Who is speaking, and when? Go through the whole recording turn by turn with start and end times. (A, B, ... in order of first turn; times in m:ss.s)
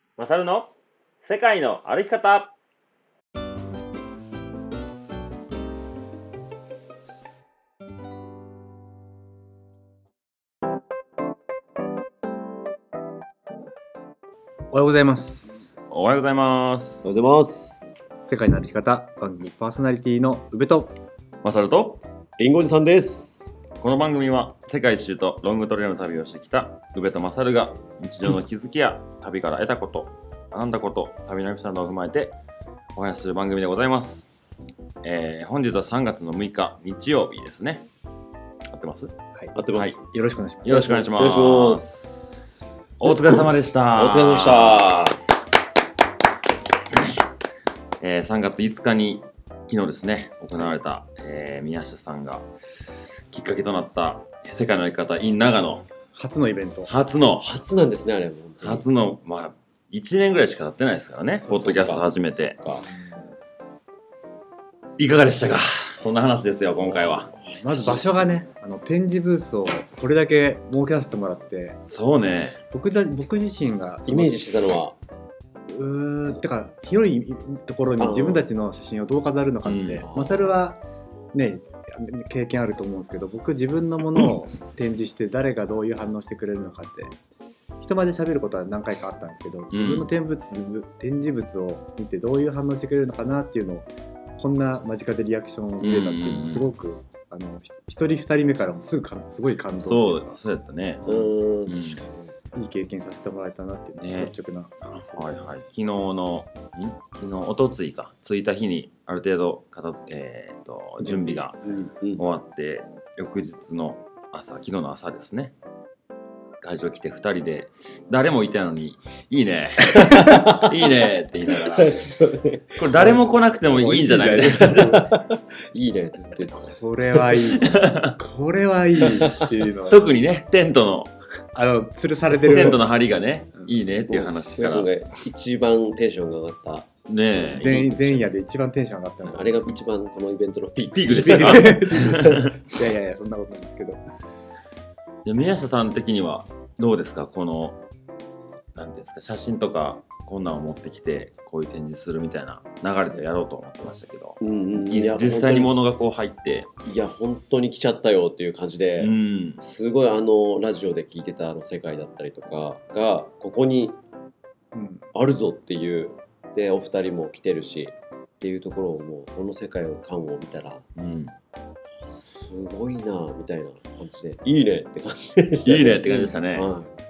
0:00.2-0:00.7 A
0:01.2-0:02.5 A
0:14.7-0:15.7 B
0:15.9-0:17.0 A
0:17.0-0:17.9 C
0:18.3-0:21.0 B
0:21.4-0:22.0 A
0:22.4-0:23.5 C
0:23.8-0:32.4 A
0:32.9-0:34.3 A
0:35.0-0:37.8 A
0:38.7-0:39.1 A
0:39.3-0:40.8 B
0:39.5-0:40.0 C
0:40.6-0:41.9 A
0:40.6-0:42.4 C
0:43.0-0:45.2 A
0:43.1-0:43.4 C
0:44.0-0:45.2 C
0:46.9-0:47.2 A
0:48.0-0:52.5 A
0:53.3-0:55.9 A
0:56.1-0:56.9 B
0:56.9-0:57.5 A
0:57.4-0:58.9 C
0:58.6-1:02.6 A
1:01.4-1:02.9 C
1:02.8-1:03.2 B
1:05.0-1:07.3 A
1:06.7-1:08.2 C
1:07.6-1:11.8 B
1:11.9-1:12.6 A
1:12.6-1:14.4 B
1:14.1-1:15.0 C
1:15.7-1:20.8 B
1:18.0-1:18.5 C
1:19.6-1:20.0 A
1:20.0-1:20.6 C
1:21.3-1:27.1 B
1:27.8-1:40.2 B
1:29.7-1:30.1 A
1:35.8-1:36.7 A
1:39.8-1:41.1 A
1:41.0-1:41.3 B
1:41.0-1:42.3 C
1:41.6-1:42.0 A
1:42.5-1:45.4 B
1:44.0-1:51.6 A
1:51.0-1:51.4 B
1:51.1-1:52.2 C
1:52.1-1:55.5 A
1:56.6-2:02.1 A
1:59.9-2:03.2 C
2:02.8-2:05.0 A
2:03.7-2:05.1 B
2:04.6-2:06.8 C
2:06.7-2:10.1 B
2:07.6-2:08.2 A
2:09.1-2:09.5 C
2:09.9-2:11.1 A
2:11.5-2:12.8 B
2:12.3-2:14.9 A
2:14.1-2:17.7 C
2:17.1-2:18.3 A
2:17.5-2:19.7 B
2:19.2-2:22.4 C
2:20.9-2:22.5 A
2:21.1-2:24.0 B
2:25.2-2:27.8 A
2:28.7-2:36.7 A
2:34.4-2:35.8 C
2:36.8-2:44.0 C
2:39.0-2:39.6 A
2:44.7-2:45.0 B
2:45.1-2:50.8 C
2:51.0-2:51.3 A
2:51.9-2:56.9 C
2:55.6-2:56.7 A